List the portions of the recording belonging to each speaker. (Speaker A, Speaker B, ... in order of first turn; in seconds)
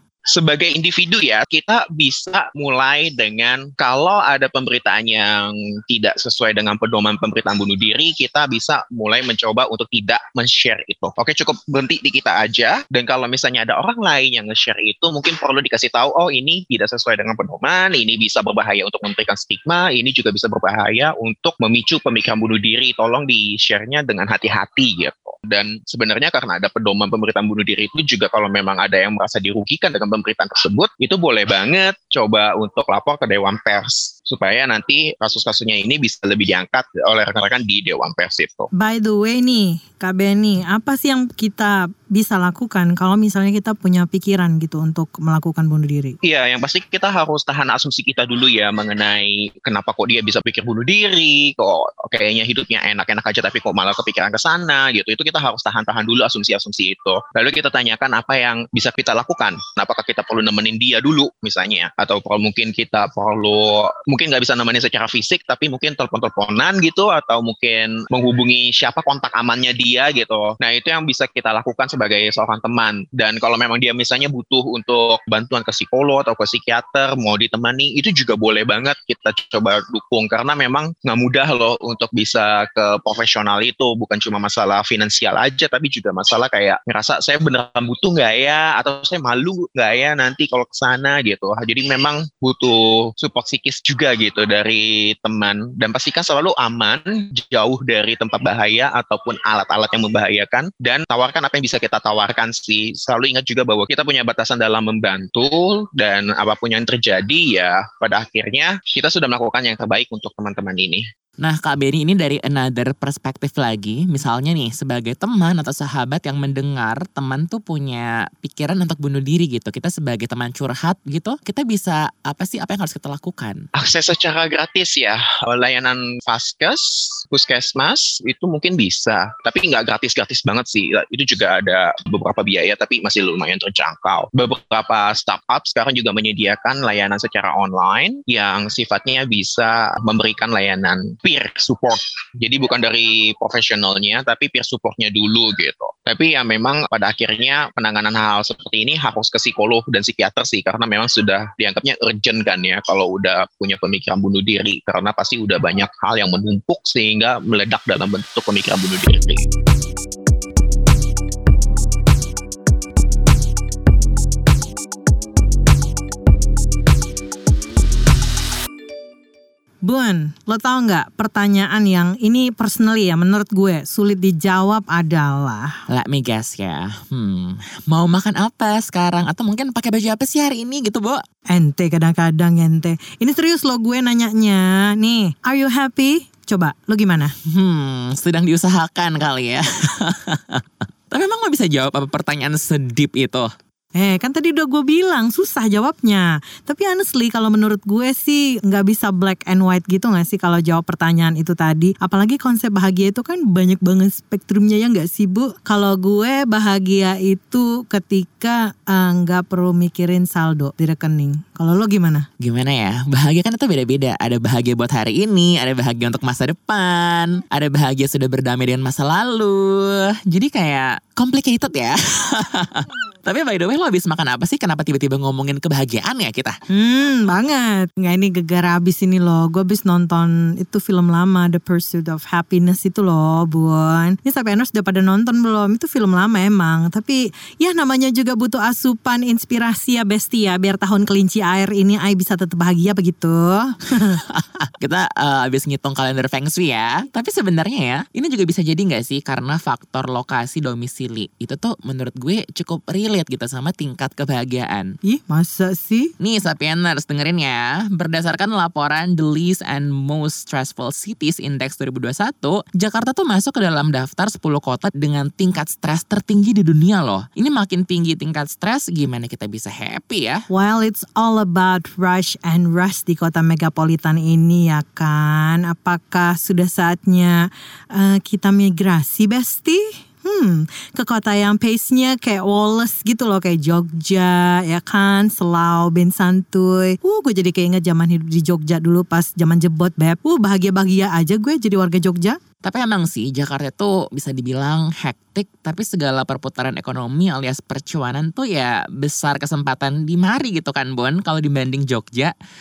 Speaker A: 0.3-38.7, 46.2-111.0, 123.8-159.5
Speaker B: 38.7-46.1, 169.8-175.8, 181.5-187.3, 193.9-212.3, 226.7-244.2, 255.1-256.1, 270.5-292.4
Speaker C: 111.4-123.6, 175.9-181.2, 187.4-193.5, 212.4-226.6, 244.2-254.9, 256.2-270.4, 292.6-302.3